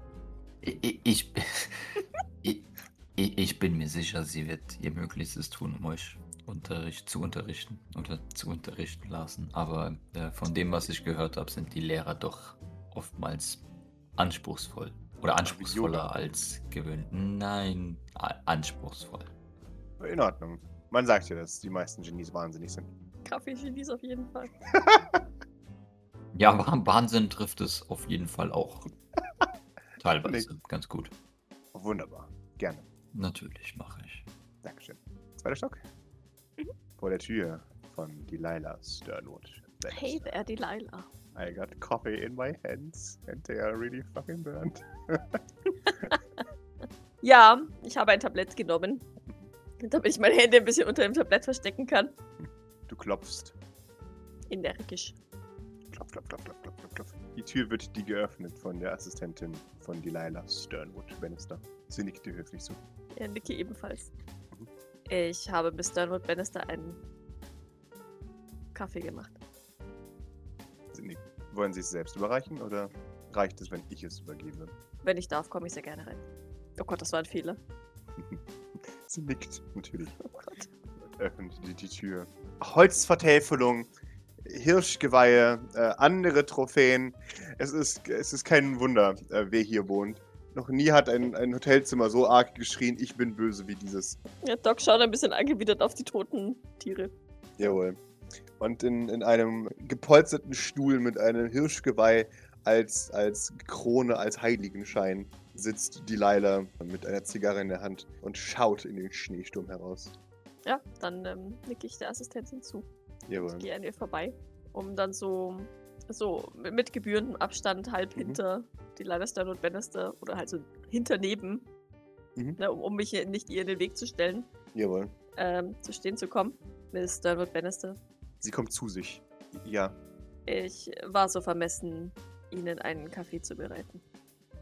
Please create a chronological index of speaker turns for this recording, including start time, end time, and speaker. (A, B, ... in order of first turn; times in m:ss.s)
0:00.6-0:13.6 A
0:14.2-0:19.3 A
0:15.4-0:16.1 B
0:20.0-0:22.9 B
0:23.2-0:24.5 C
0:24.7-0:25.2 B
0:26.3-0:28.9 A
0:30.0-0:31.1 A
0:30.2-0:30.5 B
0:31.7-0:32.8 B
0:33.1-0:34.2 A
0:34.6-0:35.8 B
0:37.0-0:40.3 B
0:39.9-0:41.1 C
0:41.3-0:45.4 B
0:47.2-0:49.0 C
0:49.8-0:52.1 C
0:52.9-0:53.6 B
0:54.5-0:55.2 C
0:55.9-1:02.8 B
1:03.1-1:04.1 C
1:05.1-1:07.0 C
1:08.7-1:09.4 C
1:10.9-1:14.8 B
1:15.0-1:16.2 C
1:16.8-1:17.6 C
1:18.2-1:20.2 B
1:20.2-1:20.7 C
1:21.1-1:23.9 B
1:24.4-1:34.2 B
1:34.4-1:37.7 C
1:37.6-1:38.0 B
1:38.6-1:50.1 B
1:50.6-1:52.9 C
1:53.3-1:53.7 B
1:53.4-2:01.7 C
1:58.1-1:58.4 B
2:02.6-2:04.5 C
2:04.7-2:05.1 B
2:05.4-2:08.0 C
2:08.4-2:10.0 B
2:10.4-2:14.0 C